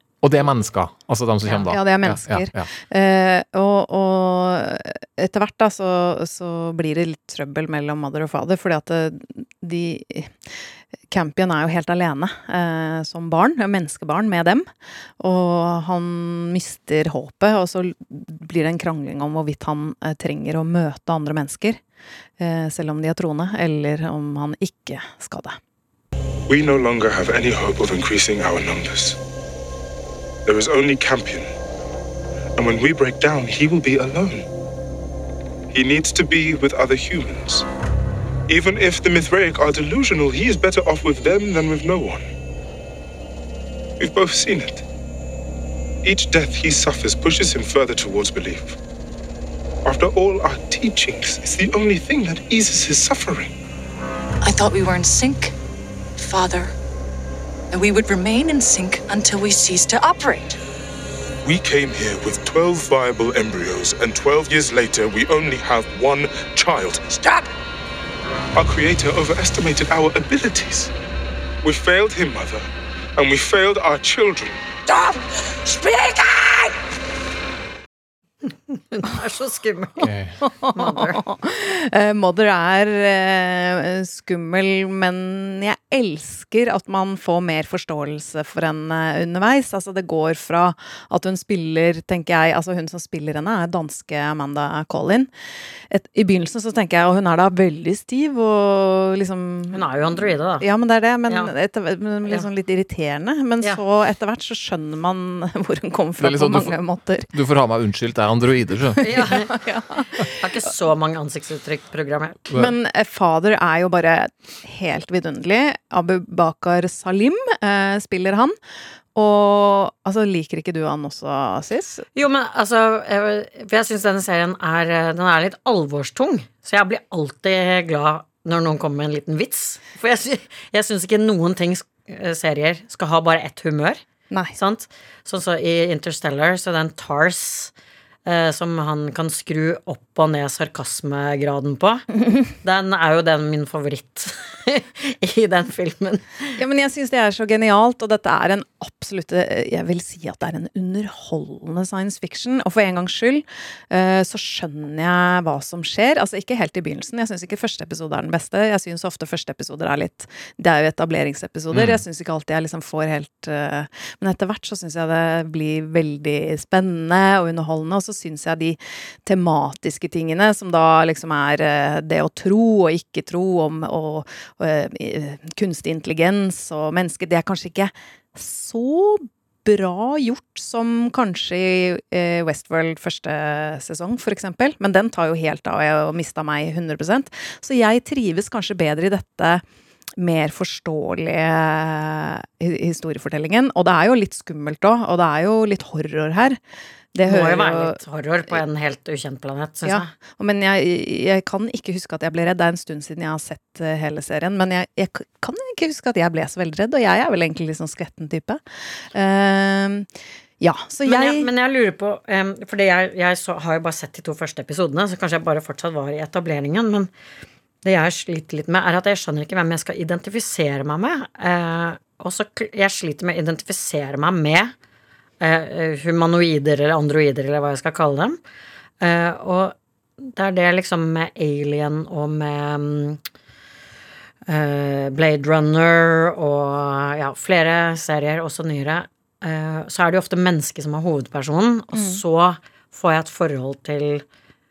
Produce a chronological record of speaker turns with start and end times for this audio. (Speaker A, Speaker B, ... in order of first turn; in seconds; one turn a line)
Speaker A: 0.2-2.7
Speaker B: 1.4-1.7
Speaker C: 1.5-10.4
Speaker C: 11.1-14.7
Speaker C: 15.2-21.8
Speaker C: 22.4-25.6
Speaker D: 26.5-29.2
Speaker D: 30.4-31.5
Speaker D: 32.6-34.5
Speaker D: 35.7-37.6
Speaker D: 38.5-42.2
Speaker D: 44.0-44.8
Speaker D: 46.0-48.8
Speaker D: 49.8-53.5
Speaker E: 54.4-55.5
Speaker E: 56.2-56.7
Speaker E: 57.7-60.6
Speaker D: 61.4-67.4
Speaker D: 68.5-70.9
Speaker D: 71.6-72.6
Speaker D: 73.2-74.6
Speaker B: 78.7-80.1
Speaker A: 80.0-80.4
Speaker C: 80.4-95.3
Speaker B: 80.7-81.2
Speaker C: 95.9-107.3
Speaker B: 99.7-100.7
Speaker B: 101.3-101.5
Speaker A: 106.2-106.8
Speaker A: 107.3-109.1
Speaker B: 109.0-109.5
Speaker C: 109.1-110.2
Speaker B: 110.2-112.5
Speaker C: 112.5-118.5
Speaker C: 119.1-122.0
Speaker B: 122.1-134.0
Speaker C: 134.3-134.6
Speaker B: 134.5-137.7
Speaker B: 138.2-142.1
Speaker B: 142.6-146.5
Speaker C: 146.6-189.6
Speaker A: 161.7-162.0
Speaker C: 190.2-196.6
Speaker C: 197.1-198.0
Speaker B: 197.2-200.1
Speaker C: 199.8-208.6
Speaker C: 209.1-210.1
Speaker C: 210.6-211.5
Speaker B: 211.1-217.1
Speaker B: 217.8-224.7
Speaker B: 225.4-228.4
Speaker B: 229.0-233.2
Speaker B: 234.5-244.2
Speaker C: 241.9-242.2